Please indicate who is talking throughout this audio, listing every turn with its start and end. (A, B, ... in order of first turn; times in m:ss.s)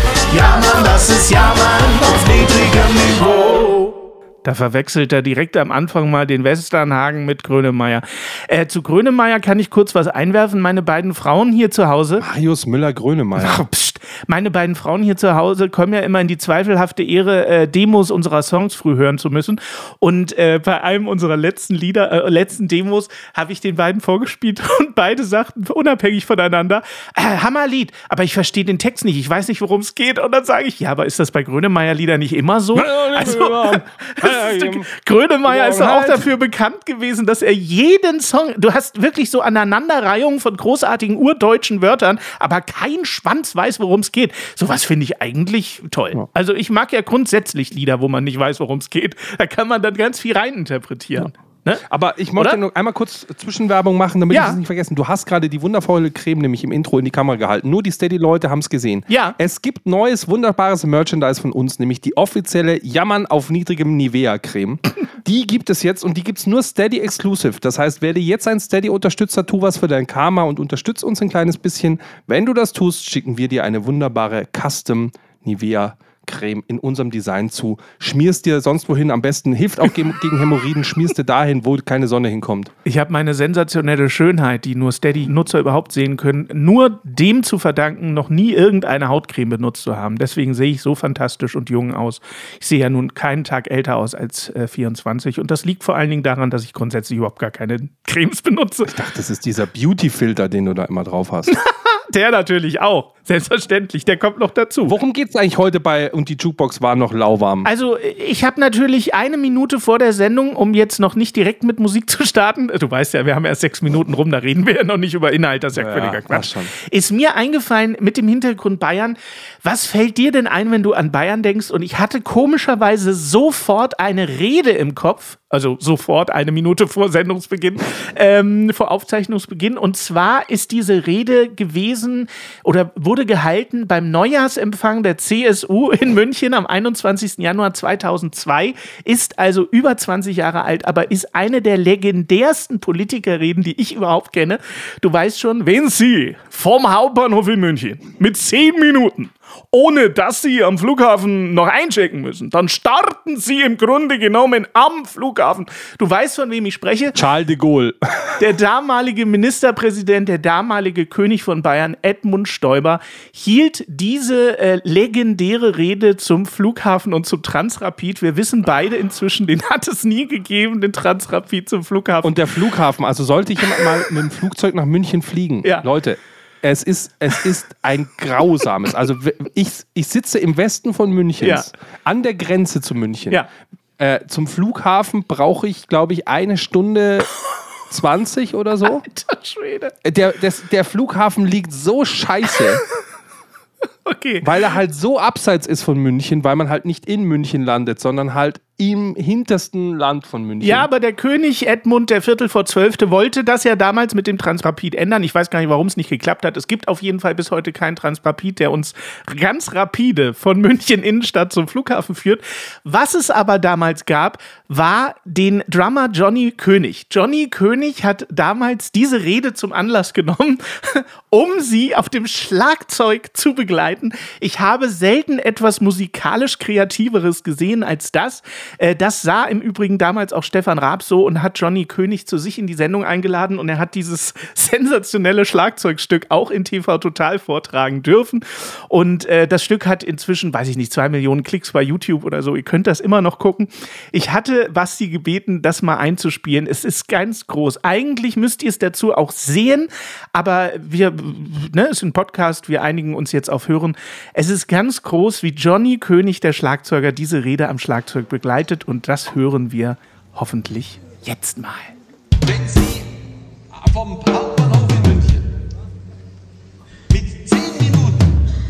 0:00.3-0:12.2 A
0:12.2-0:13.6 B
0:13.4-0:51.8 A
0:32.7-0:34.9 B
0:35.4-0:36.3 B
0:51.9-1:22.7 B
0:54.3-0:54.6 A
0:59.1-0:59.4 A
1:22.8-1:38.9 A
1:38.9-1:41.5 B
1:41.5-1:45.0 A
1:44.8-1:47.7 B
1:47.6-2:37.2 A
1:55.8-1:56.7 B
2:37.1-2:38.4 B
2:38.4-2:52.4 A
2:52.2-3:03.4 B
3:01.4-3:01.7 A
3:04.0-3:07.3 B
3:07.9-3:09.1 B
3:09.0-3:09.9 A
3:10.0-3:12.8 B
3:14.0-3:14.5 A
3:14.4-3:20.9 B
3:20.6-4:21.9 A
4:22.4-4:23.1 C
4:23.7-4:25.4 C
4:27.1-4:28.3 C